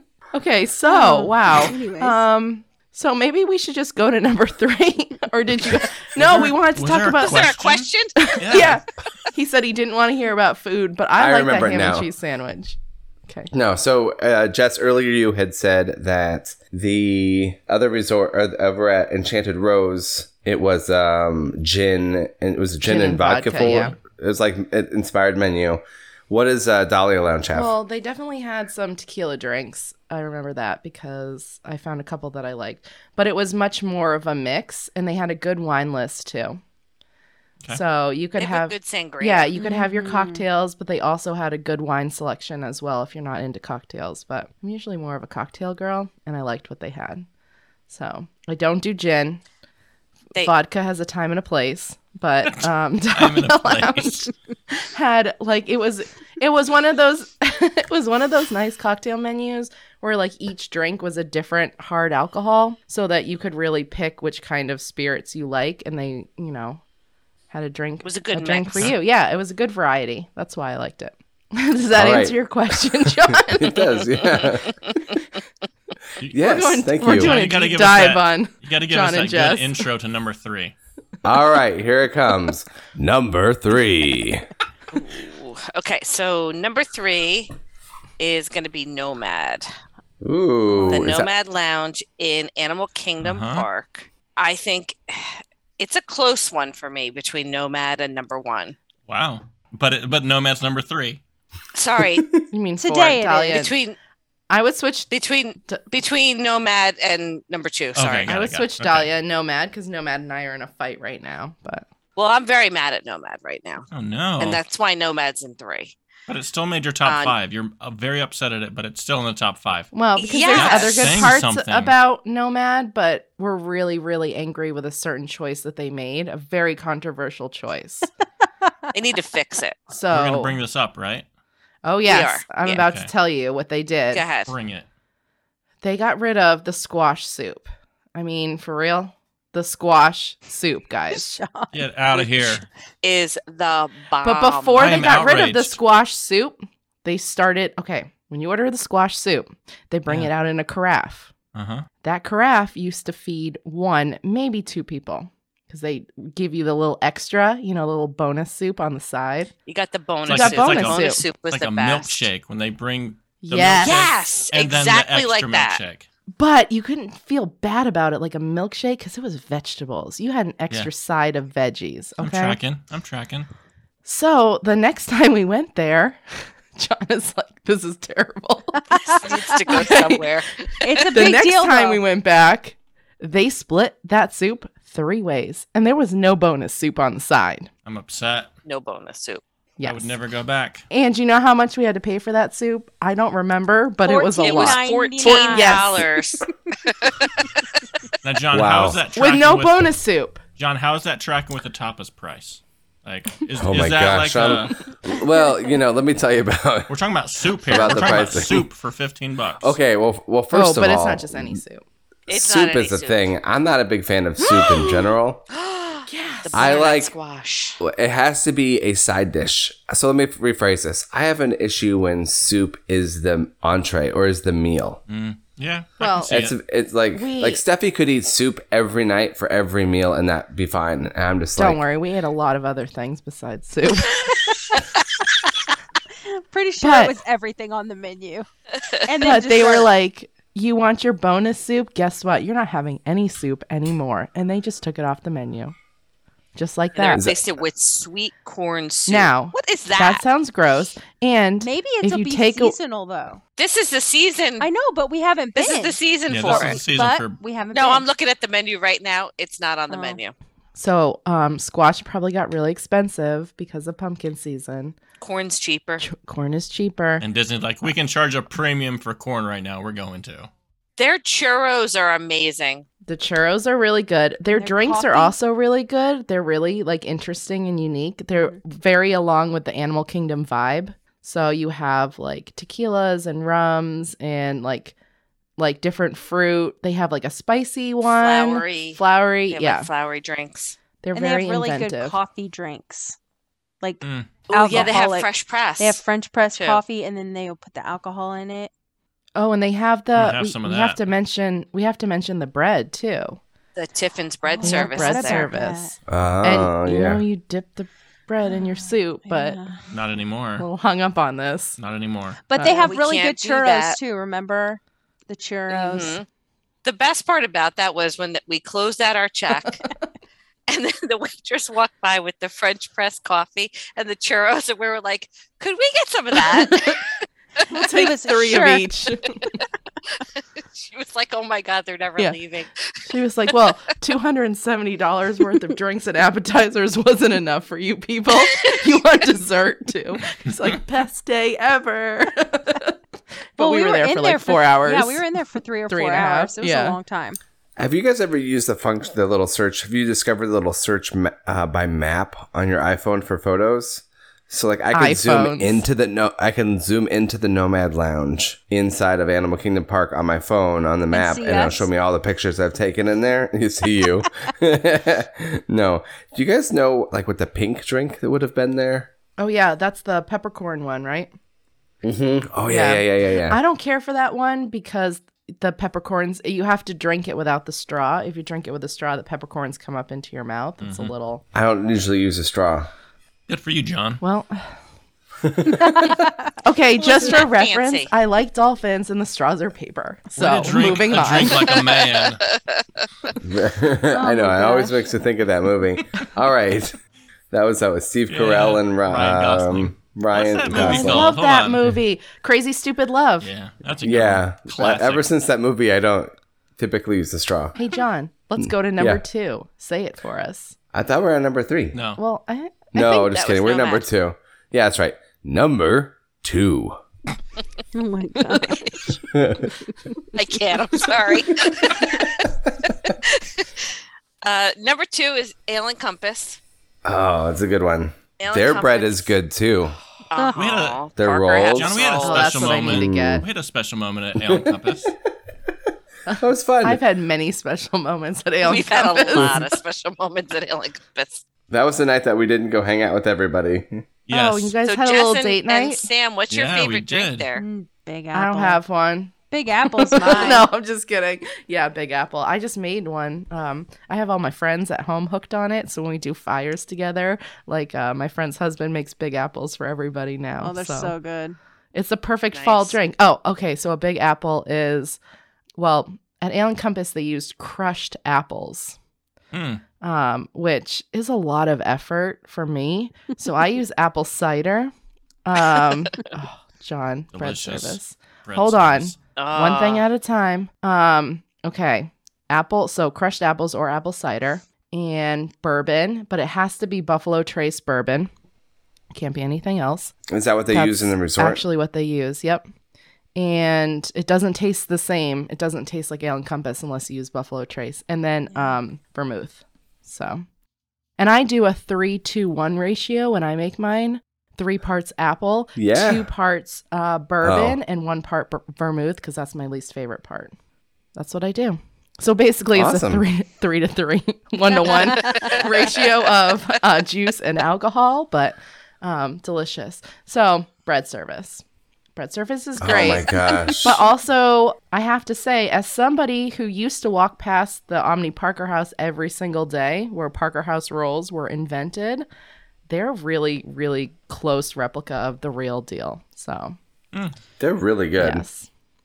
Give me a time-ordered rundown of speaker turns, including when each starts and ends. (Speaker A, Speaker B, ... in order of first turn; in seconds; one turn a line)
Speaker A: 0.3-7.5
Speaker B: 0.9-2.2
Speaker C: 6.2-8.8
Speaker D: 7.2-8.2
Speaker A: 8.2-13.5
Speaker E: 11.2-12.1
Speaker E: 13.5-27.7
Speaker A: 22.8-23.9
Speaker A: 27.5-36.6
Speaker A: 37.7-47.3
Speaker D: 38.4-39.5
Speaker B: 39.5-40.5
Speaker A: 47.9-49.4
Speaker A: 50.4-66.8
Speaker C: 53.1-54.3
Speaker A: 67.5-74.4
Speaker D: 68.0-68.9
Speaker E: 72.0-74.8
Speaker C: 76.2-80.8
Speaker E: 76.3-77.4
Speaker A: 76.4-79.9
Speaker E: 81.2-84.5
Speaker D: 84.9-87.5
Speaker D: 88.2-89.7
Speaker E: 90.2-91.3
Speaker D: 90.9-98.8
Speaker C: 93.2-93.7
Speaker C: 99.1-101.2
Speaker D: 101.8-102.3
Speaker A: 102.5-103.8
Speaker B: 102.8-103.7
Speaker D: 103.5-104.0
Speaker A: 104.5-105.1
Speaker D: 105.1-108.3
Speaker C: 108.0-109.1
Speaker A: 108.3-111.9
Speaker D: 112.2-113.9
Speaker C: 113.9-114.6
Speaker D: 114.4-116.0
Speaker C: 116.3-119.9
Speaker D: 117.0-117.3
Speaker A: 119.9-128.1
Speaker D: 120.2-121.1
Speaker C: 120.5-121.9
Speaker D: 128.9-129.9
Speaker A: 129.9-130.6
Speaker C: 130.1-131.3
Speaker A: 131.8-134.3
Speaker D: 132.1-132.8
Speaker C: 132.8-133.1
Speaker D: 134.1-134.5
Speaker C: 134.5-134.9
Speaker A: 135.8-141.3
Speaker B: 141.1-142.6
Speaker C: 141.7-142.7
Speaker D: 143.0-145.0
Speaker A: 144.2-151.3
Speaker C: 144.8-145.8
Speaker C: 151.6-151.9
Speaker A: 152.0-159.5
Speaker D: 159.7-162.3
Speaker C: 160.3-166.1
Speaker A: 160.3-161.2
Speaker A: 163.4-164.0
Speaker D: 163.8-165.8
Speaker A: 166.4-172.6
Speaker C: 172.2-173.5
Speaker A: 174.1-179.0
Speaker B: 178.9-179.5
Speaker D: 179.1-181.2
Speaker A: 179.7-180.3
Speaker B: 180.8-182.0
Speaker A: 181.1-187.7
Speaker C: 187.9-188.5
Speaker D: 188.7-189.4
Speaker A: 189.8-190.2
Speaker C: 189.8-190.8
Speaker A: 190.9-196.1
Speaker B: 194.0-196.1
Speaker D: 194.4-197.7
Speaker C: 198.2-199.9
Speaker E: 198.5-199.0
Speaker A: 199.2-200.4
Speaker C: 200.6-204.9
Speaker E: 203.6-206.9
Speaker C: 206.9-209.8
Speaker E: 207.7-208.7
Speaker E: 209.6-211.6
Speaker A: 210.5-211.8
Speaker D: 212.3-213.3
Speaker E: 212.3-215.4
Speaker D: 214.6-214.9
Speaker D: 215.5-217.8
Speaker A: 216.1-216.8
Speaker E: 216.5-217.1
Speaker E: 217.8-225.0
Speaker C: 225.1-226.6
Speaker A: 226.0-226.4
Speaker E: 226.3-231.8
Speaker A: 227.1-227.6
Speaker A: 231.6-234.3
Speaker B: 236.3-238.5
Speaker A: 236.8-237.2
Speaker B: 239.0-239.9
Speaker A: 239.2-245.8
Speaker A: 246.6-247.3
Speaker D: 246.9-250.2
Speaker E: 247.1-247.4
Speaker A: 249.1-252.8
Speaker B: 251.6-253.4
Speaker D: 253.6-254.7
Speaker B: 254.6-258.1
Speaker D: 255.6-256.8
Speaker C: 256.3-257.4
Speaker D: 257.7-260.3
Speaker B: 259.9-260.2
Speaker A: 260.8-265.0
Speaker D: 265.2-266.0
Speaker A: 266.0-267.2
Speaker C: 267.2-270.5
Speaker D: 271.0-272.9
Speaker A: 273.1-284.9
Speaker B: 274.5-275.4
Speaker A: 285.6-289.9
Speaker D: 288.0-290.8
Speaker A: 291.0-292.2
Speaker B: 291.1-293.2
Speaker B: 293.8-295.3
Speaker C: 294.0-294.4
Speaker D: 294.5-296.0
Speaker B: 295.8-298.7
Speaker D: 296.5-296.8
Speaker A: 299.4-303.4
Speaker C: 300.1-301.0
Speaker D: 303.8-305.5
Speaker B: 304.5-305.9
Speaker A: 304.6-309.6
Speaker E: 306.1-307.2
Speaker B: 309.3-309.8
Speaker C: 309.9-310.7
Speaker A: 310.6-311.8
Speaker C: 311.8-312.4
Speaker B: 312.5-316.2
Speaker A: 312.6-312.9
Speaker D: 312.8-314.0
Speaker D: 315.7-316.3
Speaker D: 316.8-319.8
Speaker D: 320.7-327.6
Speaker A: 326.7-327.0
Speaker B: 327.7-328.9
Speaker A: 327.7-329.4
Speaker D: 330.4-333.0
Speaker A: 333.1-343.0
Speaker A: 343.6-345.3
Speaker B: 343.6-347.4
Speaker A: 345.9-347.0
Speaker E: 347.8-369.1
Speaker A: 354.9-355.8
Speaker B: 361.1-361.9
Speaker A: 369.4-371.3
Speaker E: 372.0-373.6
Speaker A: 372.6-381.4
Speaker C: 380.8-381.1
Speaker E: 381.5-382.9
Speaker C: 383.5-384.2
Speaker A: 384.2-384.7
Speaker E: 385.4-386.1
Speaker B: 385.9-386.3
Speaker A: 386.2-391.7
Speaker D: 387.0-388.1
Speaker C: 390.4-392.4
Speaker D: 391.6-393.1
Speaker E: 393.4-396.9
Speaker B: 394.2-394.9
Speaker E: 397.5-401.4
Speaker C: 398.3-402.0
Speaker A: 400.7-403.5
Speaker C: 403.4-405.3
Speaker E: 404.0-407.8
Speaker A: 407.8-410.8
Speaker E: 408.6-409.2
Speaker E: 410.9-412.0
Speaker C: 411.9-412.2
Speaker A: 412.2-413.3
Speaker E: 412.9-417.0
Speaker D: 413.3-414.1
Speaker B: 417.9-419.2
Speaker E: 419.3-419.7
Speaker D: 420.3-422.5
Speaker D: 423.1-426.6
Speaker E: 427.1-430.0
Speaker D: 428.4-429.3
Speaker D: 430.3-432.8
Speaker C: 430.6-431.1
Speaker E: 431.2-432.0
Speaker C: 431.7-435.1
Speaker A: 432.2-433.4
Speaker E: 432.9-433.4
Speaker A: 436.3-439.7
Speaker E: 436.4-437.0
Speaker D: 438.6-441.4
Speaker E: 441.7-444.1
Speaker C: 444.3-444.8
Speaker A: 444.3-446.0
Speaker D: 444.9-447.6
Speaker C: 446.5-447.5
Speaker B: 447.6-448.8
Speaker A: 448.3-449.3
Speaker B: 449.5-450.7
Speaker A: 449.9-461.1
Speaker D: 450.2-450.6
Speaker B: 460.6-461.6
Speaker A: 461.9-465.2
Speaker D: 462.5-463.0
Speaker A: 465.8-469.0
Speaker C: 469.5-469.8
Speaker A: 470.0-474.9
Speaker A: 475.4-488.3
Speaker C: 477.3-479.2
Speaker D: 479.4-480.1
Speaker A: 489.1-490.1
Speaker E: 490.3-491.6
Speaker A: 490.7-492.7
Speaker A: 493.4-500.4
Speaker A: 501.2-510.5
Speaker E: 505.8-506.3
Speaker E: 507.4-507.8
Speaker A: 511.1-521.6
Speaker E: 512.8-513.2
Speaker B: 515.1-515.6
Speaker A: 522.2-532.3
Speaker E: 522.8-524.0
Speaker A: 532.9-536.8
Speaker E: 537.6-538.5
Speaker A: 538.2-538.7